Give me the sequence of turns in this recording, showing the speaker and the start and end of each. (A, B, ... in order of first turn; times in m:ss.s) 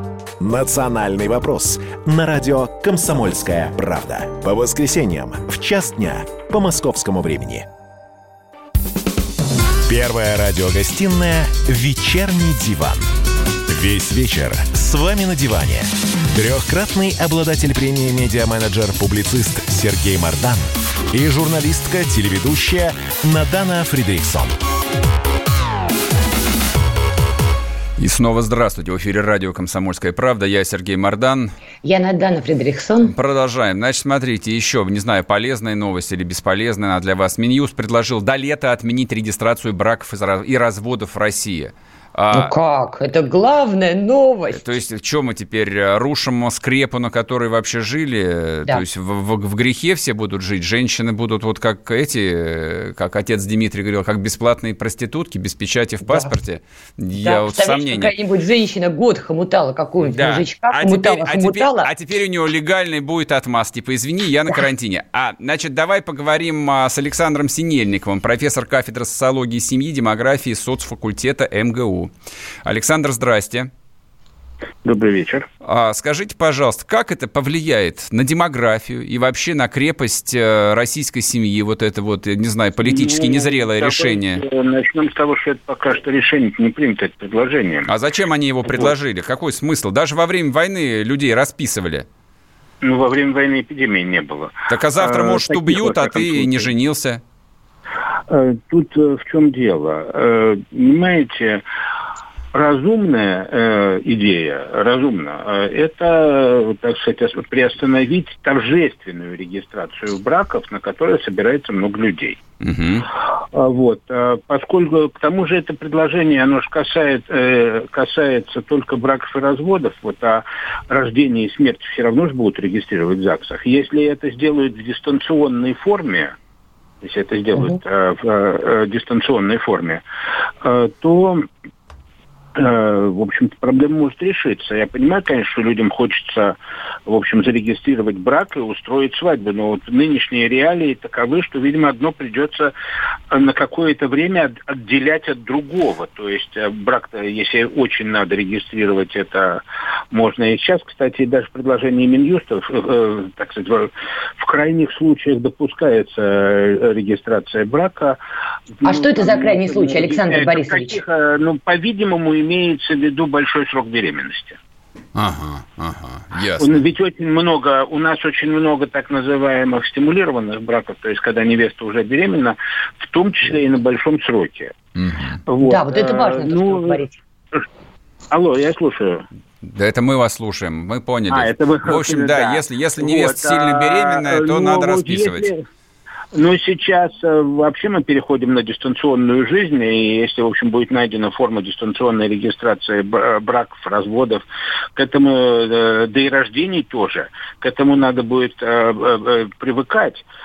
0:00.4-0:07.7 A
0:09.9-0:13.1 A
0:13.7-0:24.6 A
0:28.0-0:31.5 B
0:31.8-0:33.1 C
0:33.0-0:42.5 B
0:42.3-0:44.7 C
0:44.5-0:58.1 B
0:56.0-0:56.3 C
0:57.2-1:01.9 C
1:00.0-1:12.1 B
1:12.6-1:13.7 B
1:14.8-1:15.5 D
1:15.6-1:24.4 B
1:22.8-1:27.9 D
1:27.9-1:32.1 B
1:28.7-1:28.9 D
1:32.8-1:36.7 D
1:34.7-1:37.2 B
1:38.3-1:41.6 D
1:42.5-1:52.4 D
1:52.6-1:53.1 B
1:53.5-2:06.3 D
2:07.0-2:10.0 D
2:10.6-2:11.5 D
2:12.6-2:22.7 D
2:23.3-2:38.2 D
2:38.8-2:44.6 D
2:38.8-2:41.0 C
2:45.2-2:46.7 B
2:46.6-2:54.7 D
2:55.0-2:55.4 B
2:55.5-2:57.0 D
2:55.6-2:57.2 C
2:58.3-2:59.3 D
2:59.6-3:05.5 B
3:01.3-3:05.6 D
3:06.3-3:14.4 D
3:15.0-3:20.2 D